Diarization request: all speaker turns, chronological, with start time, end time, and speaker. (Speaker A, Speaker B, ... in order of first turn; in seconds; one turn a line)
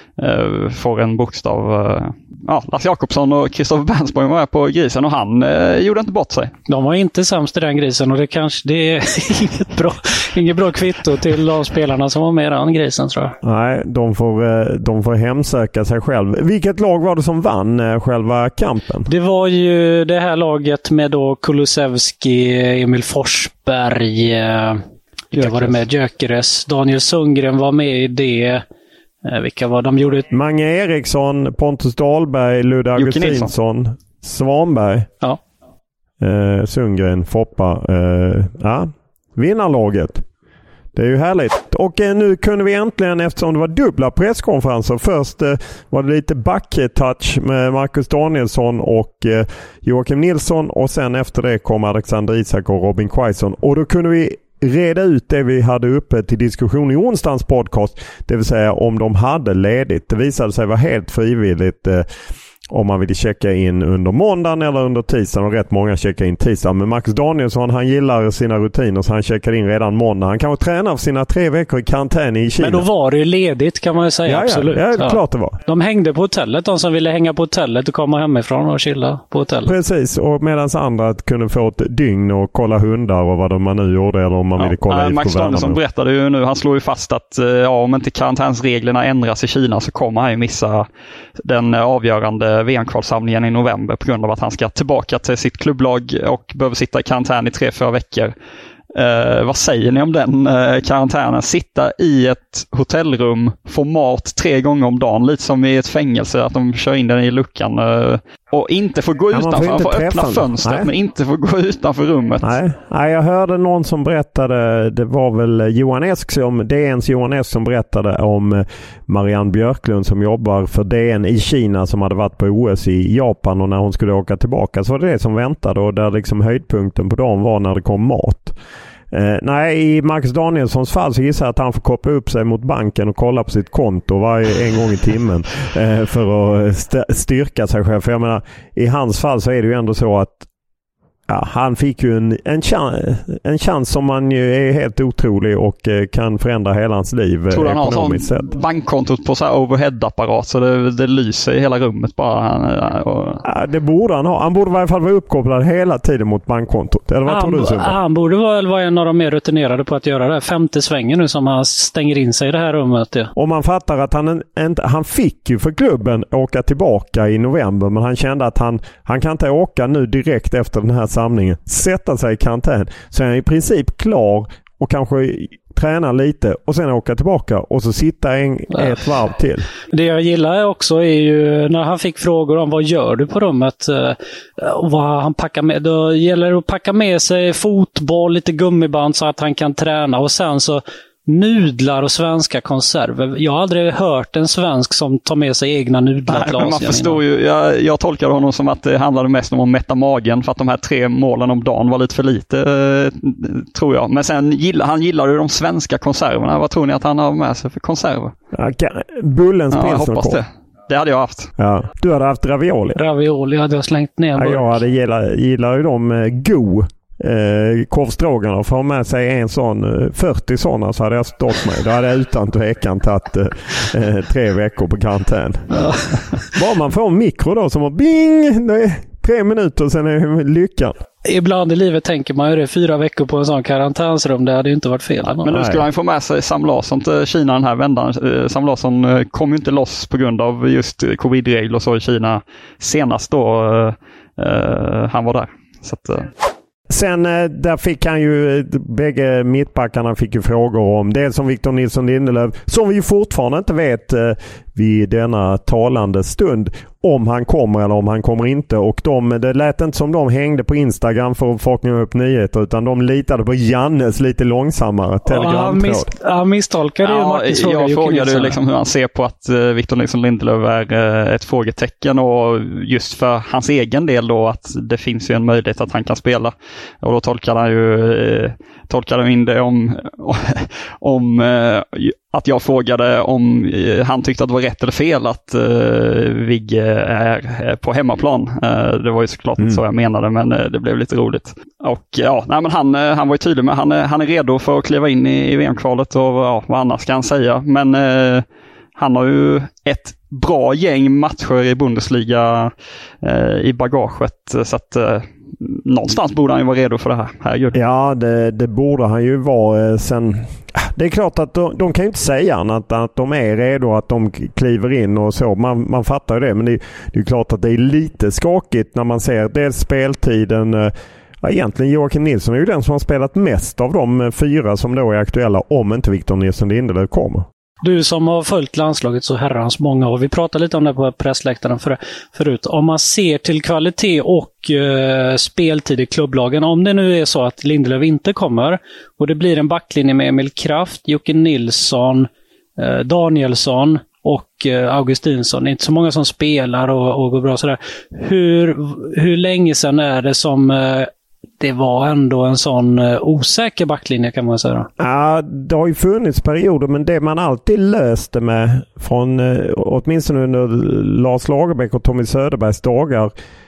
Speaker A: 0.2-6.5
Speaker B: 6.7-13.3
Speaker C: 13.4-19.1
Speaker B: 19.1-24.8
Speaker B: 25.3-28.6
Speaker A: 25.4-25.7
Speaker B: 29.2-30.3
Speaker C: 30.3-35.1
Speaker A: 33.0-33.5
Speaker C: 36.2-40.2
Speaker C: 41.0-62.0
Speaker C: 62.7-72.9
Speaker B: 72.6-79.7
Speaker C: 74.2-75.6
Speaker C: 79.7-85.8
Speaker A: 84.6-90.9
Speaker A: 91.4-98.3
Speaker A: 98.9-112.6
Speaker C: 109.3-110.9
Speaker C: 112.4-128.6
Speaker C: 129.1-140.5
Speaker C: 141.3-148.5
Speaker A: 147.5-153.4
Speaker C: 153.4-158.0
Speaker B: 157.2-163.3
Speaker C: 163.3-179.7
Speaker B: 179.9-197.2
Speaker A: 196.3-208.3
Speaker C: 208.5-210.4
Speaker A: 209.7-211.5
Speaker C: 211.6-213.0
Speaker B: 213.0-214.8
Speaker C: 214.4-225.8
Speaker B: 225.8-226.4
Speaker C: 226.5-230.9
Speaker B: 231.2-235.5
Speaker A: 235.4-246.3
Speaker C: 235.5-235.8
Speaker C: 246.9-266.1
Speaker B: 265.3-268.6
Speaker A: 267.0-298.4
Speaker A: 299.0-302.7
Speaker A: 303.2-307.8
Speaker C: 307.7-327.5
Speaker B: 327.8-351.1
Speaker B: 351.6-354.9
Speaker C: 355.0-363.3